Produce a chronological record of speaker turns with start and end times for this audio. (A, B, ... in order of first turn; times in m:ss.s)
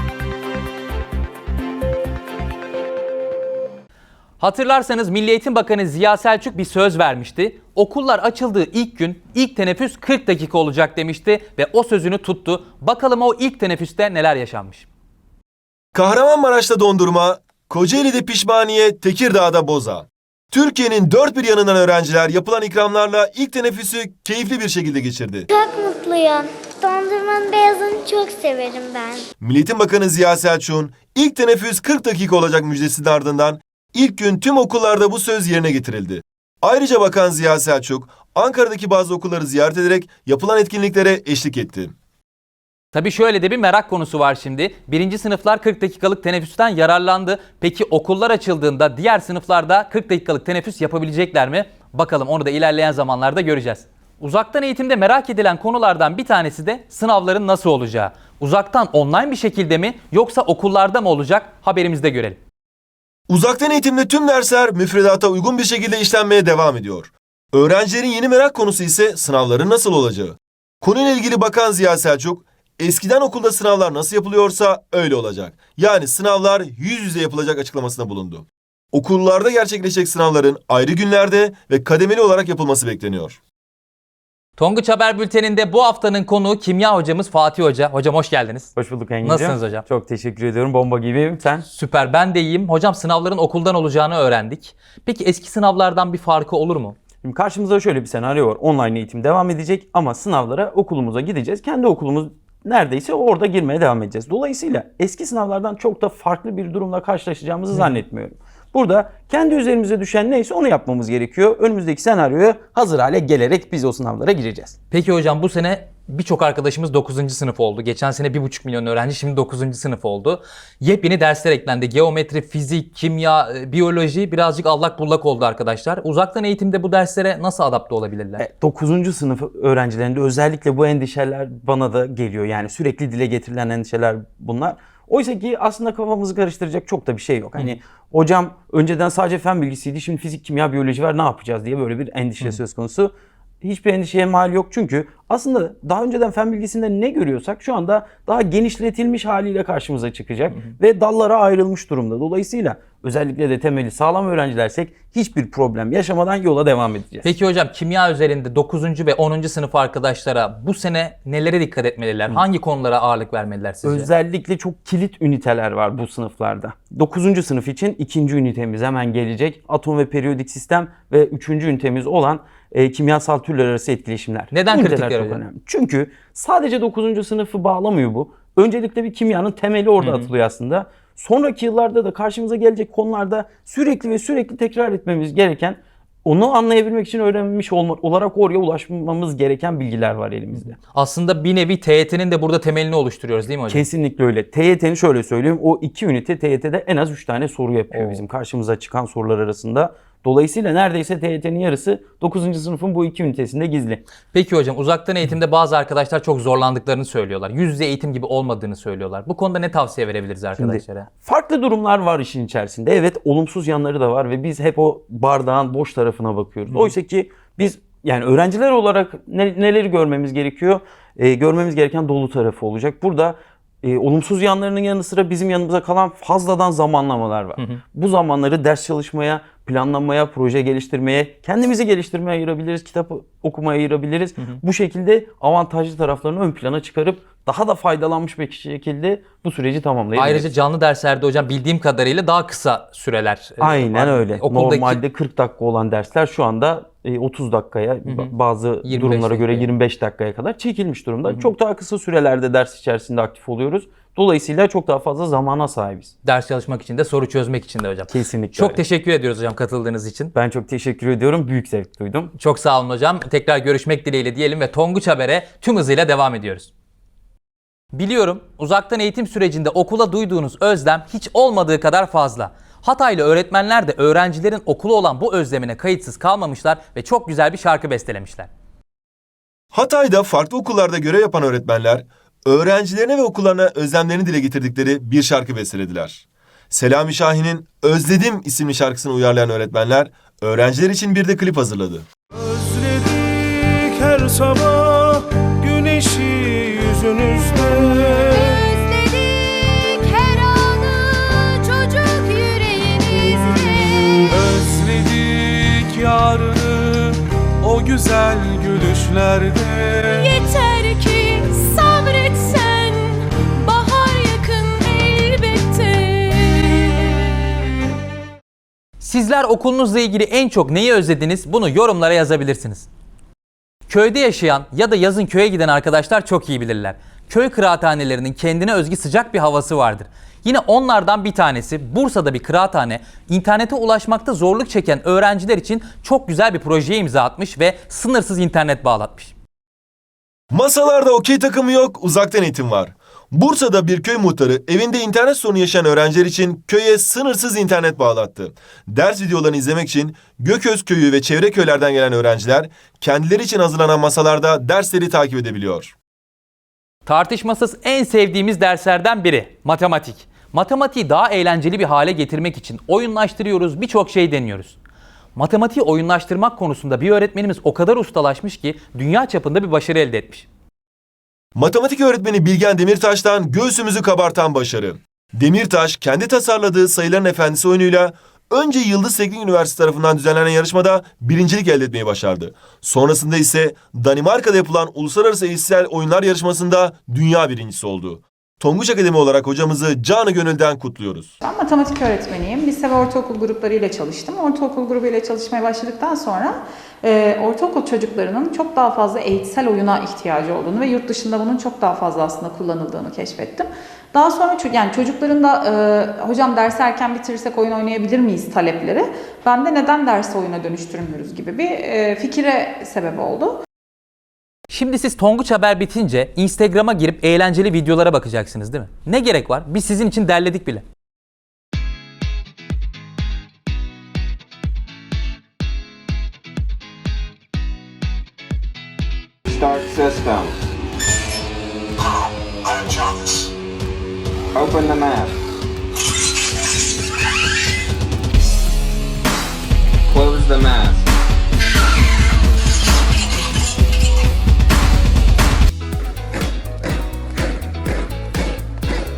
0:04.4-0:14.9 A
0:15.9-0:25.5 B
0:25.5-0:29.3 C
0:29.4-0:41.9 B
0:42.9-1:02.4 A
1:03.3-1:23.4 B
1:24.6-1:28.7 A
1:28.8-1:31.7 D
1:29.2-1:29.8 A
1:31.7-1:37.0 A
1:37.2-1:54.8 D
1:54.9-2:08.4 A
2:08.4-2:37.3 D
2:37.2-2:44.1 A
2:43.8-3:10.8 D
2:54.5-2:55.4 A
3:00.0-3:00.3 A
3:10.9-3:13.9 A
3:13.7-3:24.0 D
3:17.9-3:18.2 A
3:24.3-3:31.1 A
3:30.6-4:00.5 D
4:00.2-4:05.0 A
4:03.6-4:16.1 D
4:08.1-4:08.3 A
4:08.8-4:09.7 A
4:16.2-4:20.3 A
4:18.1-4:18.8 D
4:20.3-4:22.3 D
4:22.4-4:26.7 A
4:27.9-4:38.5 A
4:39.7-4:52.1 B
4:52.4-4:58.6 E
4:57.7-5:04.5 F
4:58.4-4:59.1 C
5:02.6-5:03.9 C
5:04.3-5:10.3 E
5:10.0-5:17.5 F
5:19.0-5:22.9 A
5:23.9-5:39.3 A
5:40.5-5:55.9 B
5:57.1-6:04.8 A
6:05.4-6:10.5 A
6:11.6-6:31.3 B
6:31.4-6:53.6 G
6:54.7-7:00.8 A
7:09.5-7:10.6 H
7:14.5-7:15.4 H
7:20.1-7:21.1 H